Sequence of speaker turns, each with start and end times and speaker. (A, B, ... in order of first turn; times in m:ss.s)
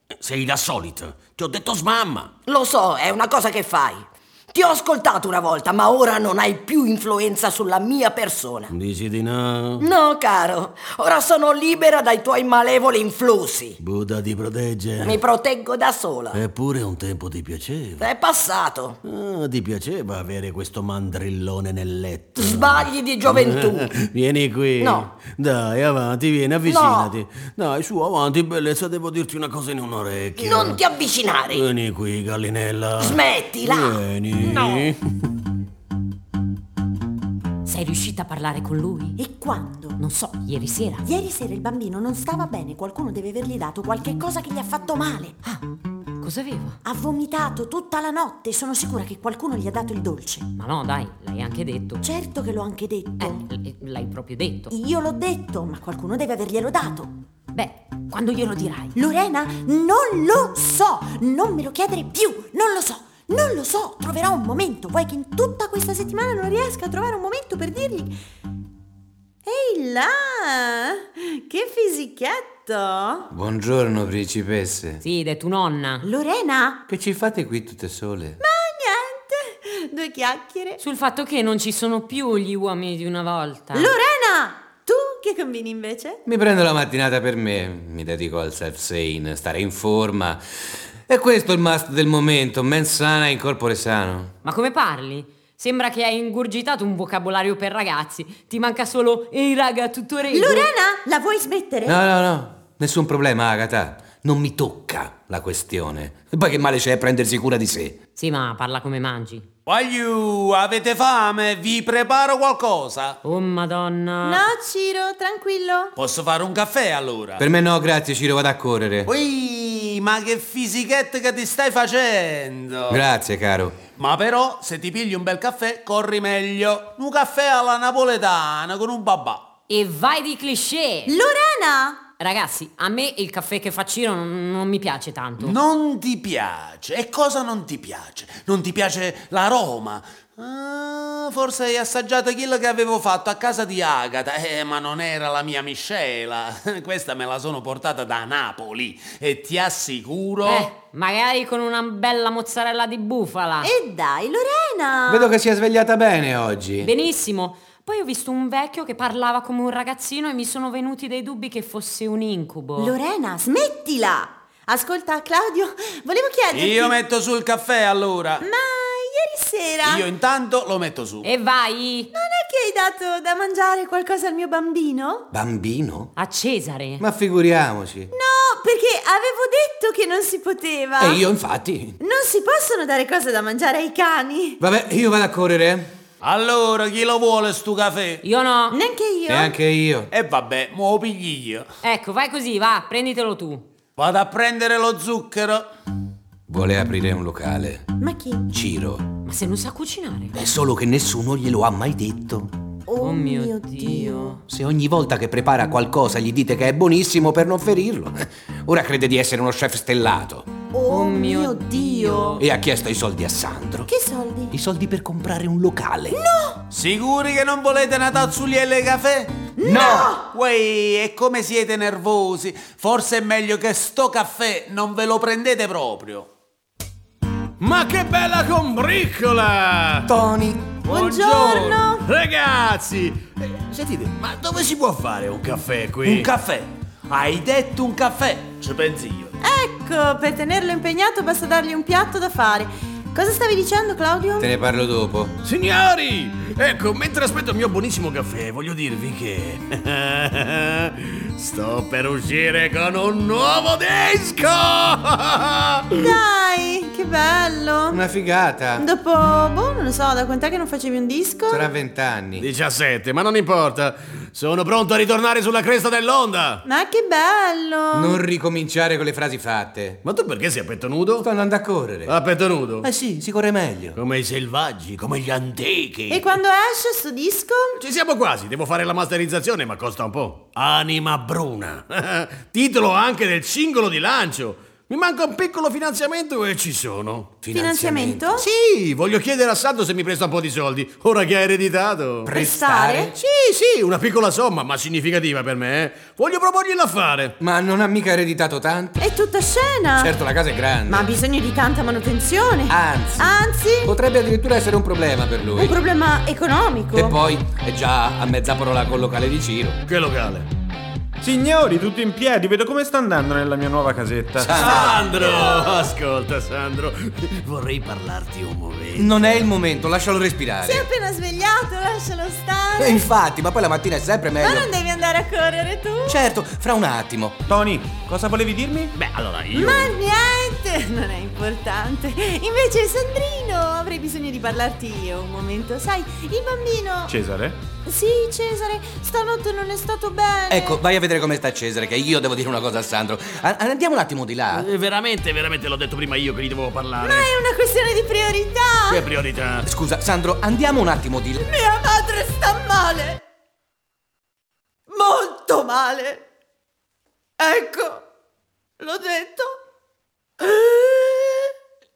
0:00.2-0:02.4 A
0:02.4-0:08.7 B
0:08.7-0:09.8 A
0:09.8-0:13.8 B
0:13.8-0:15.2 A
0:15.0-0:16.4 B
0:16.3-0:18.1 A
0:18.0-0:19.0 B
0:19.0-0:30.8 A
0:22.4-0:23.9 B
0:24.8-0:25.1 B
0:26.6-0:27.1 B
0:30.4-0:31.6 B
0:31.5-0:35.0 A
0:33.0-0:34.0 B
0:34.5-0:34.8 B
0:37.6-0:39.2 C
0:39.2-0:40.0 D
0:40.0-0:41.0 C
0:41.0-0:45.6 D
0:46.2-0:46.8 C
0:46.8-0:50.5 D
0:50.5-0:52.0 C
0:52.0-0:53.5 D
0:53.2-0:54.7 C
0:54.7-0:57.1 D
0:57.5-0:58.9 C
0:58.9-1:08.1 D
1:09.4-1:13.3 D
1:13.3-1:15.0 E
1:15.0-1:16.1 C
1:16.0-1:16.8 D
1:16.9-1:18.4 E
1:18.4-1:20.8 D
1:20.8-1:23.9 C
1:23.7-1:26.2 D
1:26.2-1:30.4 E
1:31.1-1:34.3 E
1:34.4-1:40.7 C
1:40.3-1:42.0 D
1:41.8-1:48.0 E
1:48.2-1:49.4 C
1:49.7-1:53.2 F
1:53.2-1:54.5 C
1:54.2-1:55.9 D
1:56.0-1:57.4 F
1:57.4-1:59.1 E
1:59.1-2:03.0 F
2:02.9-2:03.8 E
2:03.9-2:09.5 F
2:09.7-2:11.1 C
2:11.1-2:12.1 D
2:12.2-2:15.6 C
2:15.4-2:30.7 F
2:30.4-2:33.7 C
2:33.6-2:35.3 D
2:35.1-2:36.9 E
2:36.8-2:43.0 C
2:42.8-2:46.9 D
2:46.5-2:48.4 F
2:48.4-2:50.0 D
2:49.8-2:51.3 F
2:51.2-2:52.1 C
2:52.1-2:55.3 D
2:55.3-2:56.1 E
2:56.2-2:57.0 C
2:57.0-2:58.1 E
2:58.1-3:01.2 D
3:01.0-3:02.0 E
3:02.0-3:04.6 D
3:04.6-3:05.9 E
3:06.2-3:08.2 F
3:08.2-3:08.8 C
3:08.7-3:09.6 D
3:09.3-3:10.1 E
3:10.1-3:11.7 F
3:11.8-3:13.6 C
3:14.0-3:15.6 F
3:16.5-3:17.8 E
3:18.0-3:18.4 D
3:18.5-3:19.0 E
3:19.2-3:20.3 C
3:20.4-3:22.5 E
3:22.9-3:24.4 D
3:23.0-3:24.4 C
3:24.5-3:30.5 E
3:30.7-3:32.4 D
3:30.8-3:32.4 C
3:32.4-3:33.9 E
3:33.9-3:34.5 D
3:34.5-3:36.2 E
3:36.1-3:36.6 D
3:36.7-3:39.4 F
3:39.6-3:40.2 D
3:39.6-3:40.0 E
3:40.2-3:46.3 F
3:47.6-3:50.1 A
3:50.1-3:50.8 E
3:50.8-3:52.0 D
3:50.9-3:51.8 F
3:52.0-3:56.3 A
3:56.0-3:59.3 F
3:59.4-4:04.5 D
4:04.4-4:05.3 E
4:05.4-4:16.0 A
4:15.9-4:18.0 D
4:17.9-4:18.8 E
4:18.8-4:21.7 D
4:21.5-4:22.4 E
4:22.4-4:26.6 A
4:26.6-4:28.2 D
4:27.9-4:30.0 E
4:30.0-4:31.3 A
4:31.2-4:32.1 E
4:32.1-4:32.9 A
4:32.8-4:34.0 E
4:34.0-4:36.4 A
4:36.1-4:37.8 D
4:37.8-4:47.4 A
4:47.4-4:48.3 E
4:47.5-4:48.4 D
4:48.3-4:52.3 A
4:52.2-4:53.1 E
4:52.3-4:53.1 D
4:53.2-4:57.3 A
4:57.4-4:59.0 E
4:59.0-5:00.1 D
5:00.0-5:01.1 E
5:00.9-5:03.9 D
5:02.7-5:03.2 E
5:03.8-5:05.8 E
5:05.5-5:07.2 D
5:06.9-5:09.8 E
5:09.8-5:10.5 A
5:11.2-5:14.6 G
5:14.4-5:15.1 E
5:14.6-5:19.4 A
5:19.0-5:20.9 E
5:20.6-5:23.1 D
5:22.8-5:24.7 E
5:24.4-5:26.2 D
5:26.1-5:27.4 E
5:27.4-5:28.9 G
5:29.0-5:29.9 A
5:29.5-5:37.1 D
5:37.1-5:37.6 G
5:37.8-5:40.8 D
5:40.5-5:44.7 E
5:44.5-5:47.3 A
5:47.0-5:49.0 D
5:48.9-5:49.6 A
5:49.6-5:51.4 E
5:51.4-5:53.2 D
5:54.9-5:56.2 D
5:57.4-5:58.0 D
5:58.8-5:59.6 D
6:00.4-6:01.5 D